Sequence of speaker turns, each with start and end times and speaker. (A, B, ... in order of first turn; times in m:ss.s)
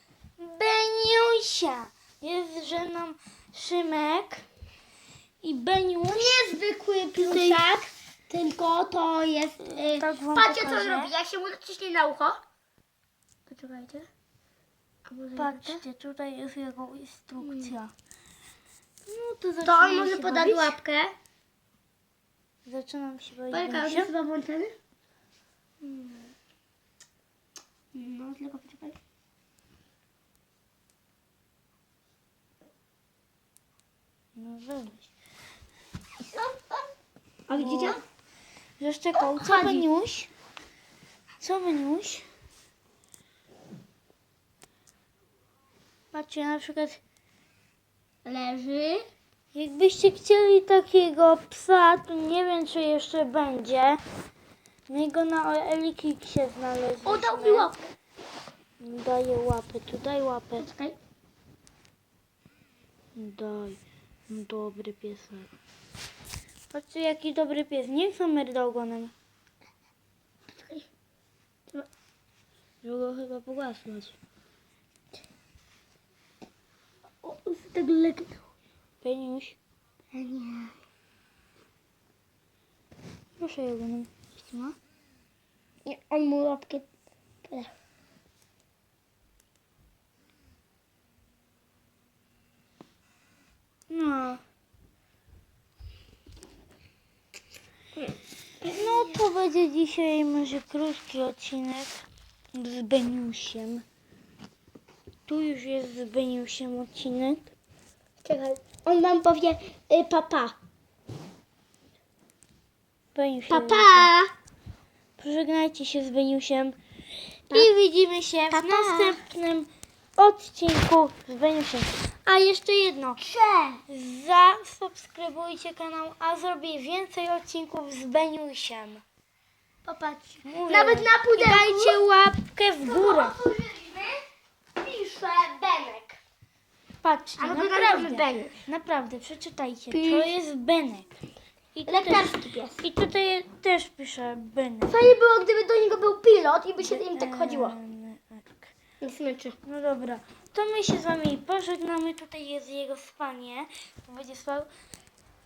0:00.4-0:04.4 A
0:05.4-0:06.5 A
0:06.1-0:12.4 B
0:07.1-0:07.6 A
0:09.6-0:11.1 A
0:13.5-0:14.1 B
0:15.1-0:15.8 B
0:15.4-0:17.9 A
0:17.4-0:17.7 B
0:19.0-0:20.8 A
0:19.6-0:21.1 B
0:22.6-0:24.1 A
0:23.5-0:24.7 B
0:25.8-0:26.3 B
0:27.9-0:29.0 B
0:34.4-0:35.1 A
0:36.2-0:36.9 B
0:37.5-0:38.0 B
0:37.5-0:38.0 A
0:38.8-0:40.3 A
0:39.2-0:39.9 B
0:41.4-0:42.3 A
0:46.1-0:47.0 A
0:48.2-0:49.0 B
0:49.5-0:54.0 A
0:54.9-0:57.7 A
0:57.0-0:57.9 B
0:58.8-1:00.7 A
1:00.6-1:01.0 B
1:03.1-1:05.5 A
1:06.7-1:09.1 A
1:10.5-1:10.9 B
1:12.8-1:14.2 A
1:17.2-1:18.4 B
1:19.0-1:19.6 A
1:20.1-1:20.8 B
1:23.4-1:24.8 A
1:25.8-1:26.9 B
1:27.4-1:27.7 B
1:33.9-1:34.4 A
1:38.6-1:43.8 A
1:45.3-1:47.5 A
1:48.2-1:50.5 B
1:53.1-1:54.1 A
1:53.5-1:54.3 B
1:55.2-1:56.8 A
1:57.5-2:03.2 A
1:58.5-1:59.2 B
2:03.2-2:03.8 B
2:03.9-2:09.0 A
2:09.8-2:12.0 B
2:10.4-2:13.3 A
2:12.8-2:14.2 B
2:14.8-2:16.2 B
2:17.0-2:21.1 A
2:17.4-2:18.6 B
2:19.9-2:20.3 B
2:21.7-2:24.9 A
2:21.9-2:22.8 B
2:24.9-2:27.8 B
2:26.8-2:28.7 A
2:29.0-2:29.6 B
2:29.6-2:34.7 A